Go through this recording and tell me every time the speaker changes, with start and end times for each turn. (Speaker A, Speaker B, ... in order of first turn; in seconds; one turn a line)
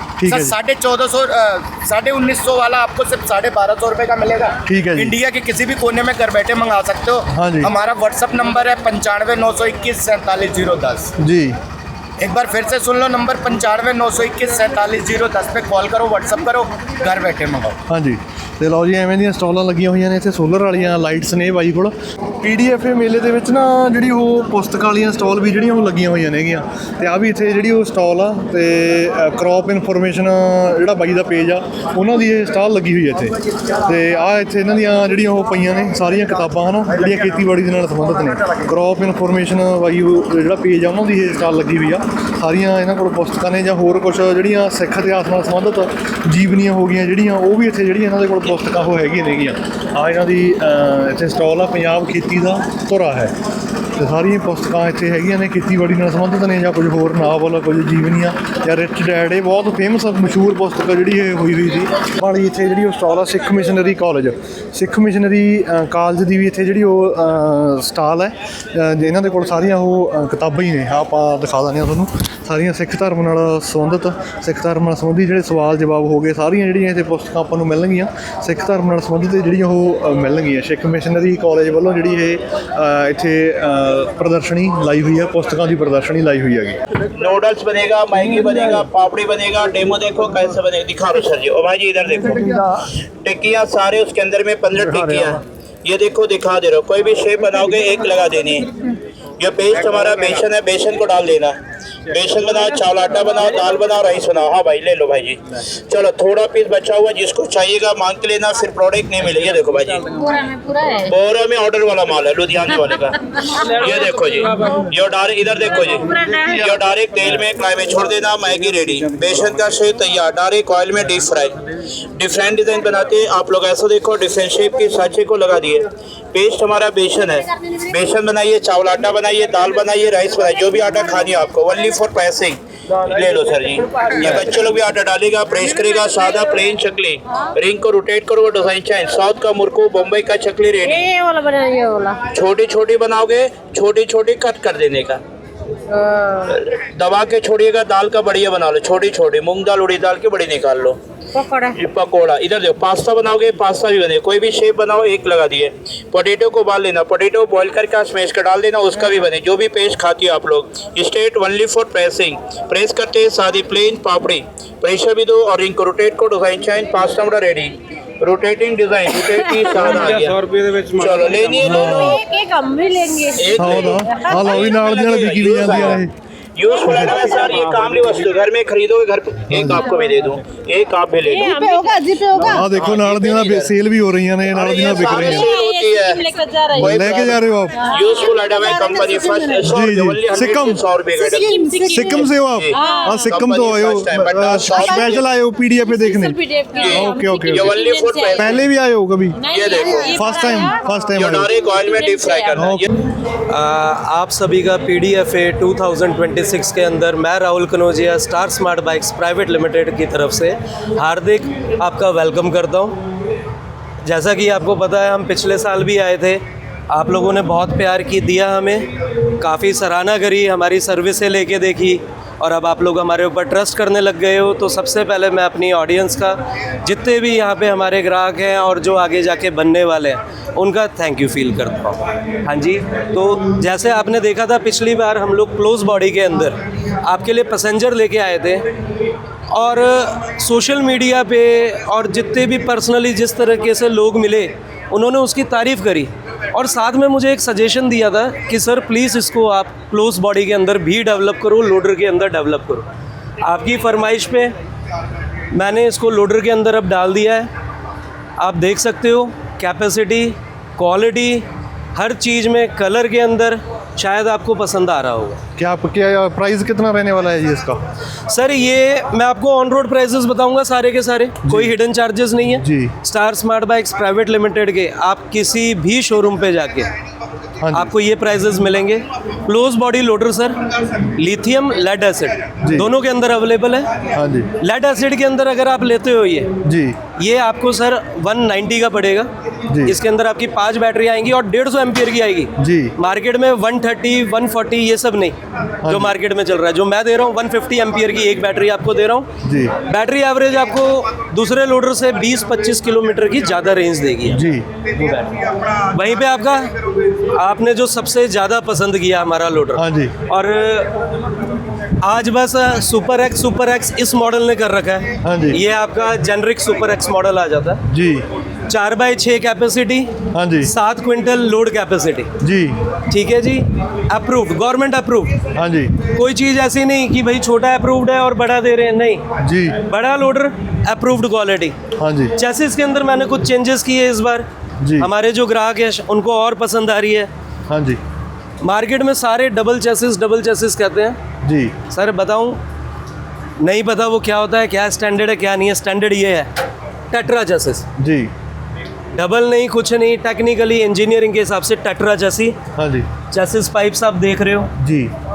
Speaker A: 0.2-0.6
Speaker B: 0.3-11.1
Speaker A: 4.7-5.2
Speaker A: 7.3-7.7
Speaker A: 11.2-11.6
Speaker B: 12.2-17.8
Speaker A: 17.9-53.3
Speaker A: 54.0-86.8
Speaker C: 87.2-92.5
Speaker C: 93.2-98.8
Speaker A: 94.7-95.4
Speaker C: 99.4-101.5
Speaker C: 102.1-110.1
Speaker D: 110.0-111.2
Speaker C: 111.1-113.2
Speaker D: 113.2-114.8
Speaker C: 113.7-121.6
Speaker D: 115.7-116.7
Speaker C: 122.2-141.1
Speaker D: 140.8-142.2
Speaker C: 142.3-145.2
Speaker D: 145.9-146.5
Speaker C: 146.5-151.0
Speaker D: 151.3-151.8
Speaker C: 151.8-172.2
Speaker D: 169.3-170.2
Speaker A: 171.6-172.2
Speaker D: 171.6-174.6
Speaker C: 173.4-181.9
Speaker A: 173.6-176.1
Speaker A: 176.8-177.2
Speaker D: 176.9-177.6
Speaker A: 179.5-179.8
Speaker D: 181.2-182.7
Speaker A: 182.4-185.5
Speaker C: 182.5-183.7
Speaker C: 184.5-186.2
Speaker D: 184.9-187.2
Speaker A: 186.8-187.9
Speaker C: 186.8-195.2
Speaker D: 187.7-189.7
Speaker A: 189.6-190.8
Speaker D: 191.1-193.5
Speaker A: 191.9-197.7
Speaker D: 194.7-195.2
Speaker D: 195.8-198.6
Speaker C: 196.8-198.6
Speaker A: 198.4-199.4
Speaker D: 199.4-202.8
Speaker C: 199.5-200.2
Speaker A: 200.1-201.5
Speaker C: 201.2-202.9
Speaker A: 202.6-202.9
Speaker E: 203.5-213.0
Speaker E: 214.0-218.9
Speaker E: 219.4-238.7
Speaker E: 239.5-252.9
Speaker E: 253.4-254.5
Speaker E: 255.5-257.5
Speaker E: 258.4-265.4
Speaker A: 265.6-267.8
Speaker E: 268.3-276.9
Speaker A: 271.4-271.8
Speaker A: 272.6-272.9
Speaker A: 277.6-277.9
Speaker E: 277.7-280.6
Speaker E: 281.1-283.9
Speaker A: 282.6-282.9
Speaker A: 284.1-284.5
Speaker E: 284.6-286.5
Speaker A: 286.6-287.0
Speaker E: 287.2-289.3
Speaker A: 289.7-290.0
Speaker E: 289.9-306.7
Speaker A: 292.6-292.9
Speaker A: 295.8-296.1
Speaker A: 299.4-299.7
Speaker A: 304.3-304.7
Speaker E: 307.3-310.9
Speaker A: 309.7-310.1
Speaker E: 312.0-317.8
Speaker A: 315.2-315.6
Speaker A: 317.9-318.2
Speaker E: 318.7-322.3
Speaker A: 320.3-320.7
Speaker A: 322.4-322.8
Speaker E: 323.1-325.4
Speaker A: 325.6-326.0
Speaker E: 326.0-329.2
Speaker A: 329.4-329.8
Speaker E: 329.8-331.8
Speaker A: 332.0-332.4
Speaker E: 332.4-334.5
Speaker A: 334.8-335.1
Speaker E: 335.0-337.3
Speaker A: 337.7-338.0
Speaker E: 338.6-341.2
Speaker A: 341.4-341.8
Speaker E: 341.9-342.6
Speaker E: 343.6-346.5
Speaker E: 347.1-347.9
Speaker A: 348.0-348.3
Speaker E: 349.1-352.6
Speaker A: 352.8-353.1
Speaker E: 353.2-354.7
Speaker A: 354.8-355.1